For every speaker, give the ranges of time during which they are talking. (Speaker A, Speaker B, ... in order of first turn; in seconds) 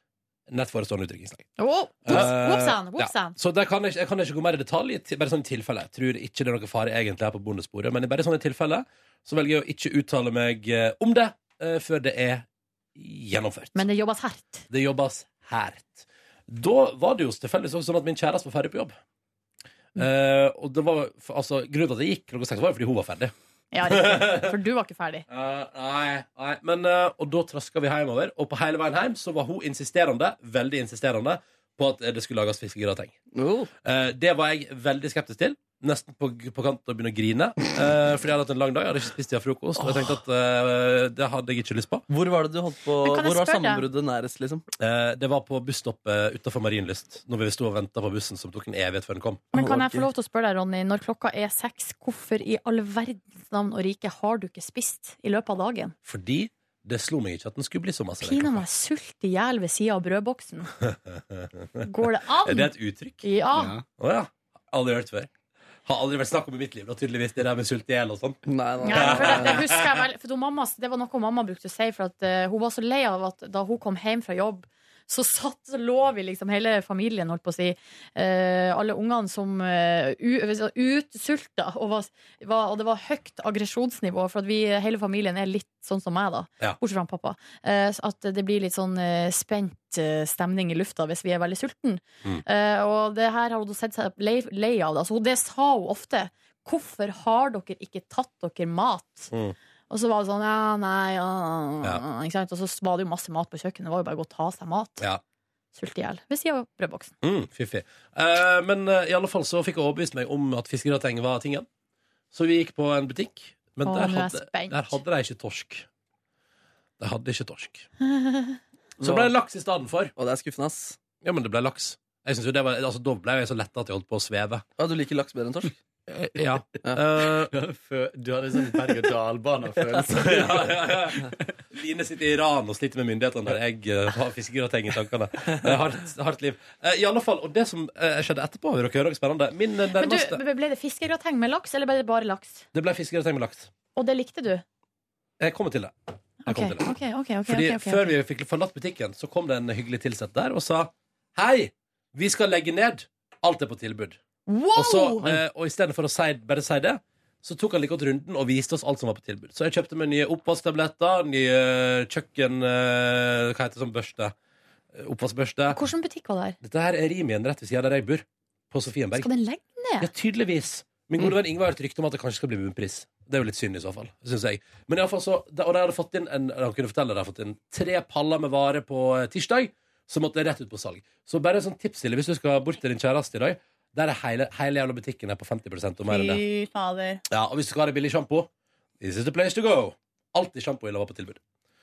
Speaker A: 0.5-1.5, 2.0-13.8, 14.7-18.9, 19.9-23.3, 23.9-24.5, 25.3-33.1, 33.8-42.0, 44.8-49.4, 56.0-58.6, 60.9-61.9, 62.4-63.2, 64.0-65.3, 65.8-69.8, 107.2-111.7, 112.3-115.9, 117.0-117.9, 119.0-120.1, 121.2-124.6, 126.1-127.5, 130.1-140.4, 142.7-143.7, 145.4-145.9, 146.4-146.9, 147.5-154.2, 154.7-164.3, 164.9-165.8, 166.6-169.3, 170.0-186.4, 187.3-188.5, 189.0-191.4
Speaker B: 1.6-3.4, 13.7-14.7, 23.7-25.2, 43.0-43.8, 49.5-55.9, 58.2-60.7, 61.8-63.7, 68.8-99.3, 99.9-105.0, 105.7-107.1, 113.8-115.0, 118.0-118.6, 139.9-142.7, 143.9-144.6, 146.4-148.1, 154.5-155.3, 165.7-166.6, 169.2-170.1, 186.1-187.2
Speaker C: 33.3-33.7, 39.8-40.2, 42.1-44.6, 49.5-50.0, 68.5-69.6, 119.0-119.3, 120.2-121.0, 124.8-125.8
Speaker D: 63.5-63.8, 127.5-131.0